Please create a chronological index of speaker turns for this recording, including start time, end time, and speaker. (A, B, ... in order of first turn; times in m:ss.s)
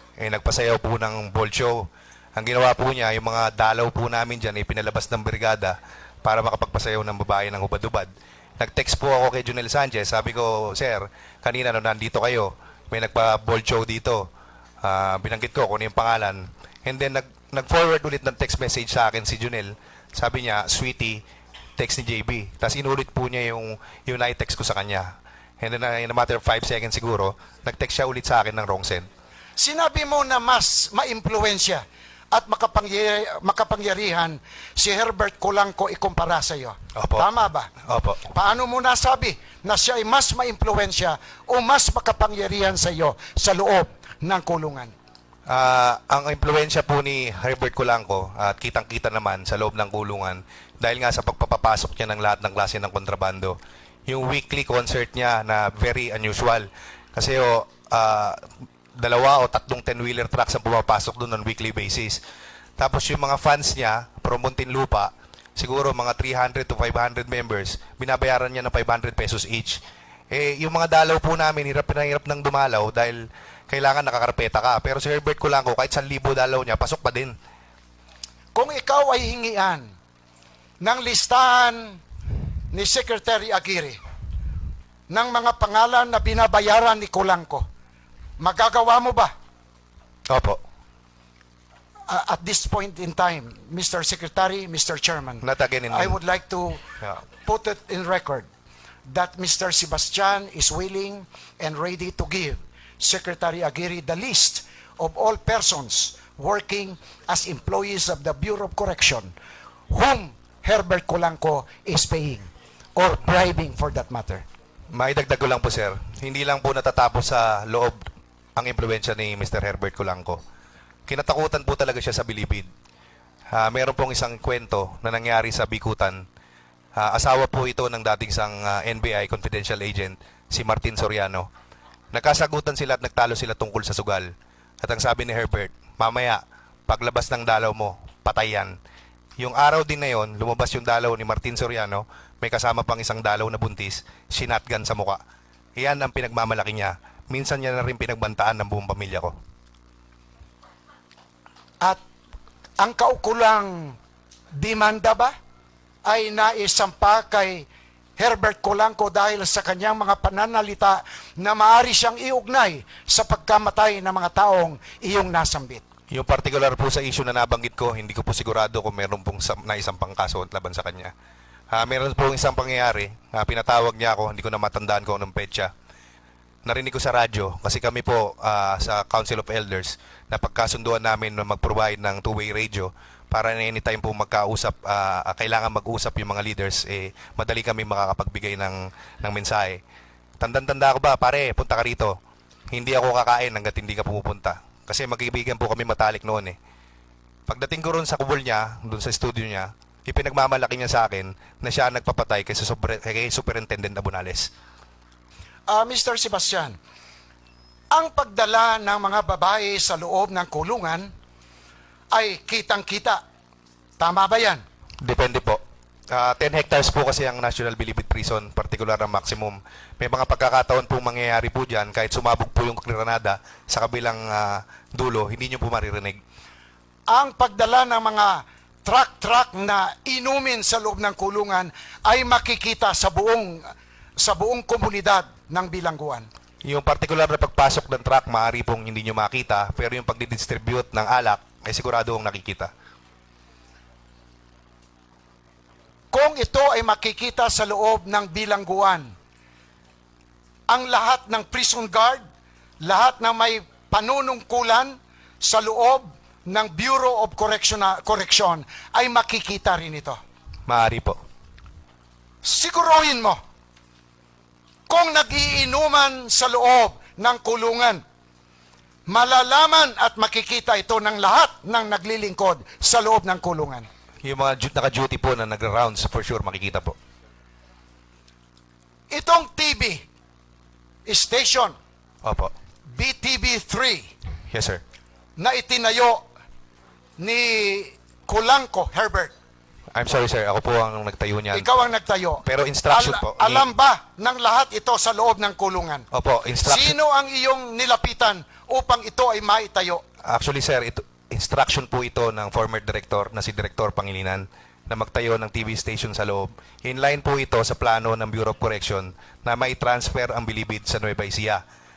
0:00.2-0:14.3 A
0:14.8-0:21.2 A
0:21.8-0:29.1 A
0:29.6-0:37.7 B
0:37.0-0:37.3 A
0:37.8-0:38.2 A
0:38.3-0:44.9 B
0:45.5-1:02.2 A
1:02.8-1:17.4 A
1:18.5-1:19.9 B
1:20.8-1:22.0 B
1:22.7-1:24.0 B
1:25.1-1:27.6 B
1:28.4-1:29.3 B
1:30.3-1:30.6 A
1:32.1-1:36.8 B
1:35.4-1:36.2 A
1:37.4-1:38.5 B
1:39.1-1:49.3 B
1:49.9-1:54.4 B
1:54.9-2:00.4 A
2:01.1-2:02.7 A
2:03.5-2:06.2 A
2:07.0-2:11.5 A
2:12.1-2:14.3 A
2:14.8-2:18.8 A
2:19.4-2:25.2 A
2:25.8-2:29.4 A
2:32.8-2:34.0 B
2:34.5-2:35.3 B
2:36.0-2:37.6 B
2:38.2-2:45.8 B
2:46.1-2:51.1 A
2:51.7-2:55.7 A
2:56.6-3:09.8 A
3:10.4-3:12.2 A
3:12.7-3:16.6 A
3:17.5-3:24.5 A
3:25.7-3:26.8 B
3:27.9-3:31.1 B
3:32.1-3:33.2 B
3:34.0-3:34.6 B
3:35.0-3:46.2 A
3:47.1-3:56.3 B
3:56.6-4:02.7 A
4:06.1-4:09.1 B
4:10.7-4:12.2 B
4:12.8-4:20.2 B
4:20.7-4:21.2 A
4:22.4-4:23.4 B
4:24.9-4:28.0 B
4:29.1-4:33.9 B
4:34.2-4:37.0 A
4:39.1-4:40.0 B
4:41.0-4:41.8 B
4:42.2-4:42.5 A
4:42.9-4:44.1 B
4:44.5-4:44.8 A
4:45.4-4:46.2 B
4:47.2-4:49.3 B
4:49.9-4:51.7 A
4:51.5-4:56.1 B
4:52.4-4:53.7 A
4:56.1-4:57.0 A
4:56.6-5:00.0 B
5:00.2-5:11.6 A